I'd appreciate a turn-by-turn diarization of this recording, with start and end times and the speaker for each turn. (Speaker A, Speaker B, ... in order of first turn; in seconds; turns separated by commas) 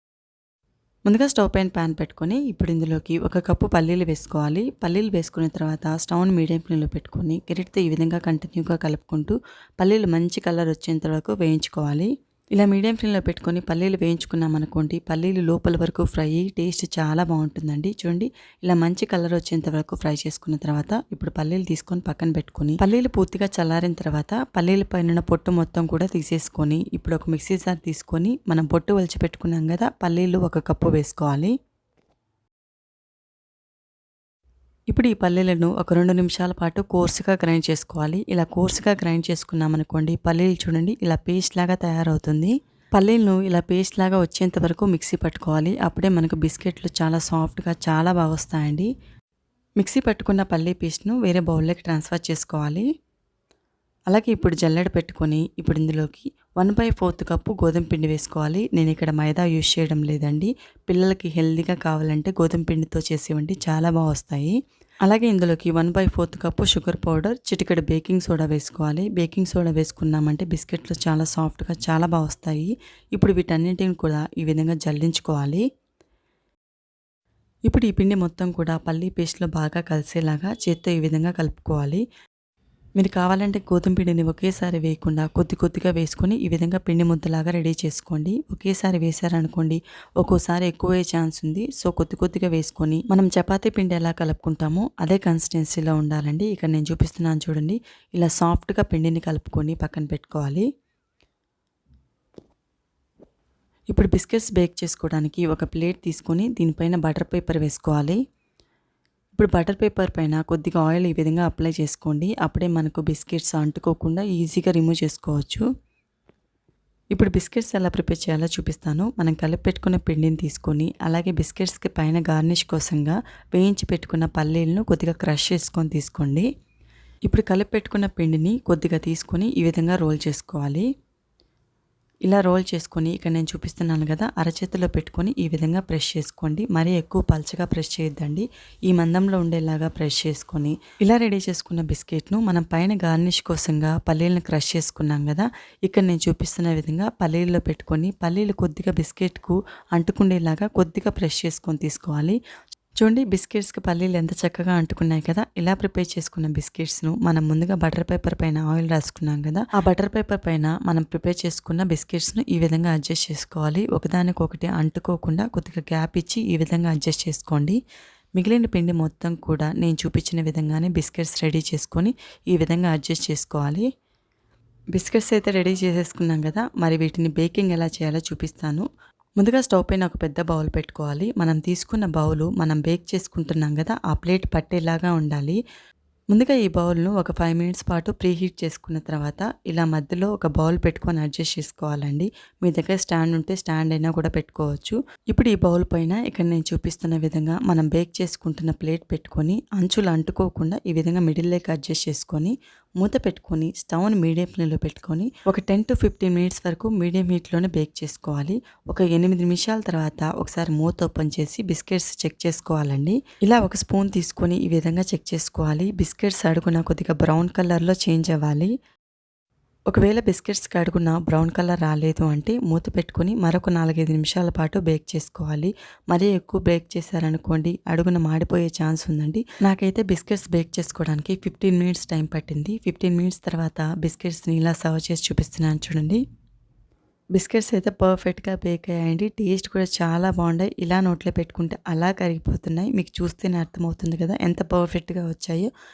Speaker A: 1.1-31.5, Speaker A: 34.9-48.9, Speaker A: 49.8-52.8, Speaker A: 54.1-64.5, Speaker A: 65.0-75.6, Speaker A: 77.7-82.0, Speaker A: 83.0-100.7, Speaker A: 103.9-108.2, Speaker A: 109.3-115.7, Speaker A: 117.1-126.5, Speaker A: 127.3-130.8, Speaker A: 132.3-152.4, Speaker A: 153.0-167.8, Speaker A: 168.4-173.9, Speaker A: 174.9-178.9, Speaker A: 179.4-185.6, Speaker A: 186.3-218.7, Speaker A: 219.9-236.2, Speaker A: 237.3-245.7